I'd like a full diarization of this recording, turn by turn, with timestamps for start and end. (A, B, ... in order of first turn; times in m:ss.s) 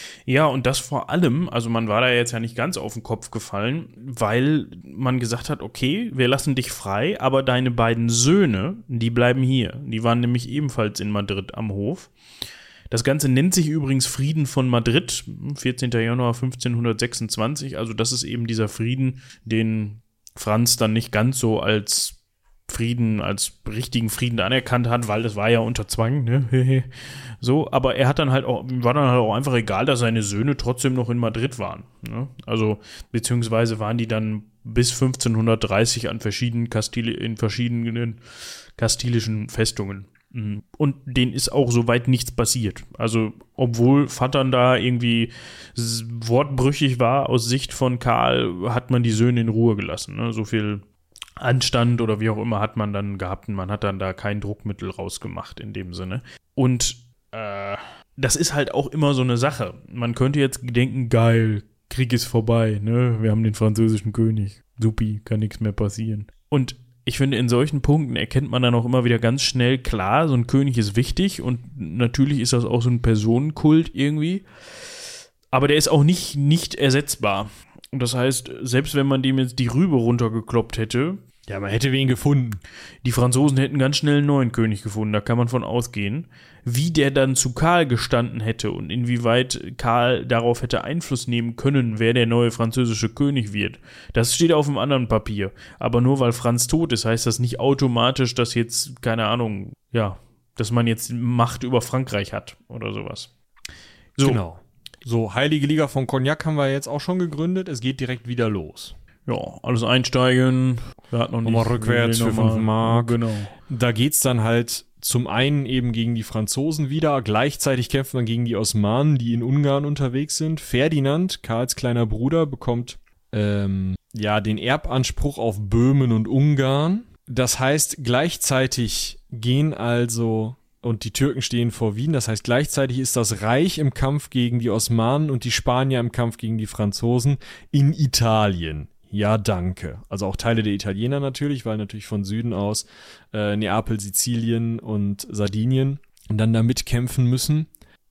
0:00.3-0:12.1 A
0:12.9-0:38.2 A
0:38.8-0:50.8 A
0:51.4-1:14.4 A
1:15.5-1:21.2 A
1:21.5-1:22.6 B
1:23.0-1:43.3 A
1:44.2-1:44.4 A
1:44.2-1:49.0 B
1:49.3-1:53.5 A
1:51.4-2:27.7 B